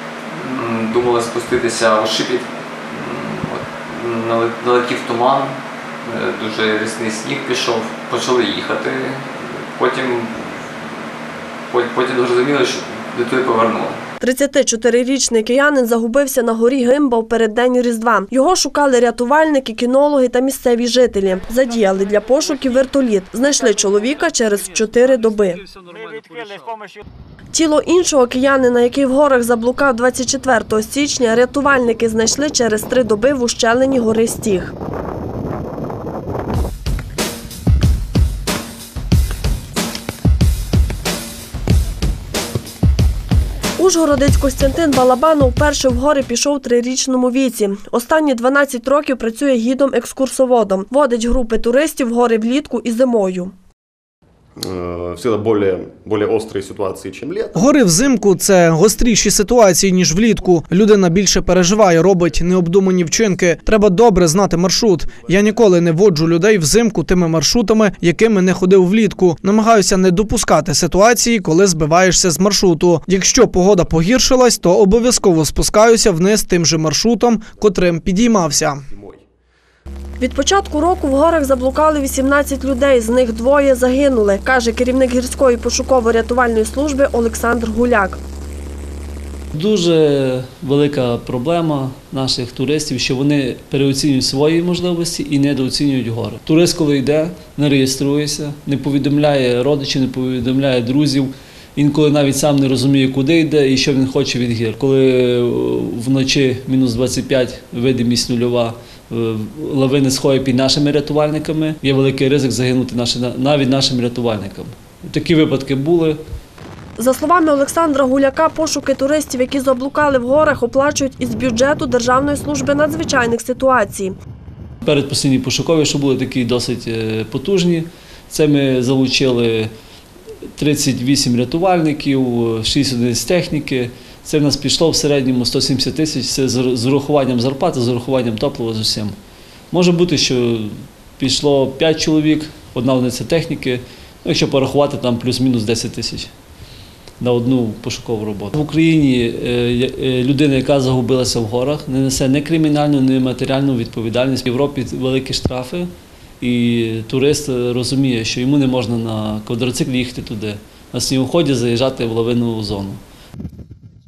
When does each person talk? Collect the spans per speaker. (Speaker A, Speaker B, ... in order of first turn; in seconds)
Speaker A: 0.3-10.9, 11.7-14.1
Speaker B: 14.2-25.6, 27.5-34.7, 43.8-53.5, 80.2-88.2, 117.0-124.2
Speaker C: 24.7-26.8, 89.5-116.2, 124.8-129.7, 130.6-139.2, 139.7-146.3, 147.2-155.9, 156.4-163.0
Speaker D: 54.6-57.7, 78.9-79.2
Speaker E: 57.5-78.8